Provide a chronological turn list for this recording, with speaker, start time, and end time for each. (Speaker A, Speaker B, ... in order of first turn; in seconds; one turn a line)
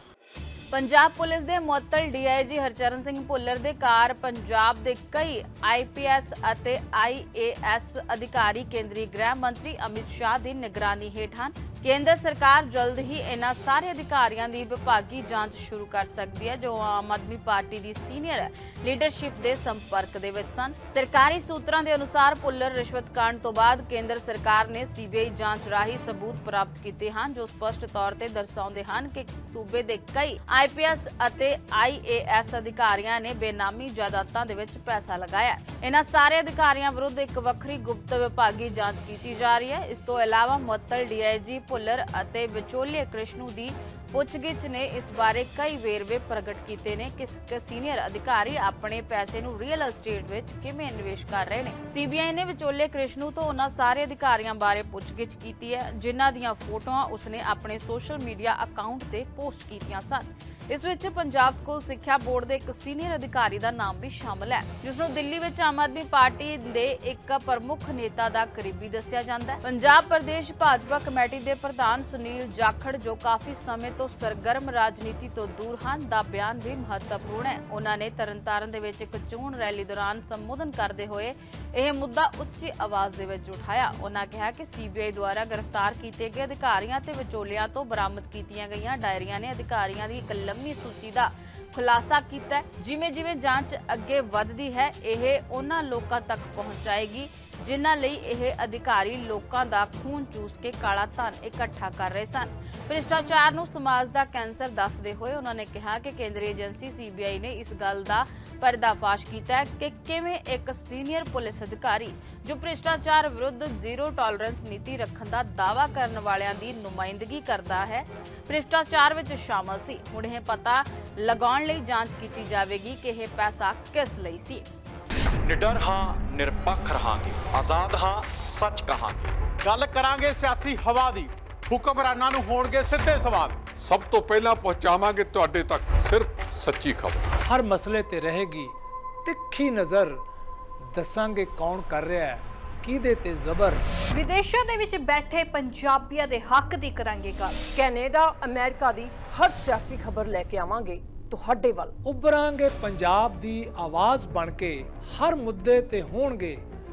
Speaker A: 0.7-124.7
Speaker B: 125.4-129.3
Speaker C: 129.6-133.6
Speaker D: 133.7-137.2
Speaker E: 137.5-138.7
Speaker E: 139.2-140.2
Speaker E: 140.9-143.8
Speaker F: 144.1-147.6
Speaker G: 147.7-152.0
Speaker E: 152.0-156.6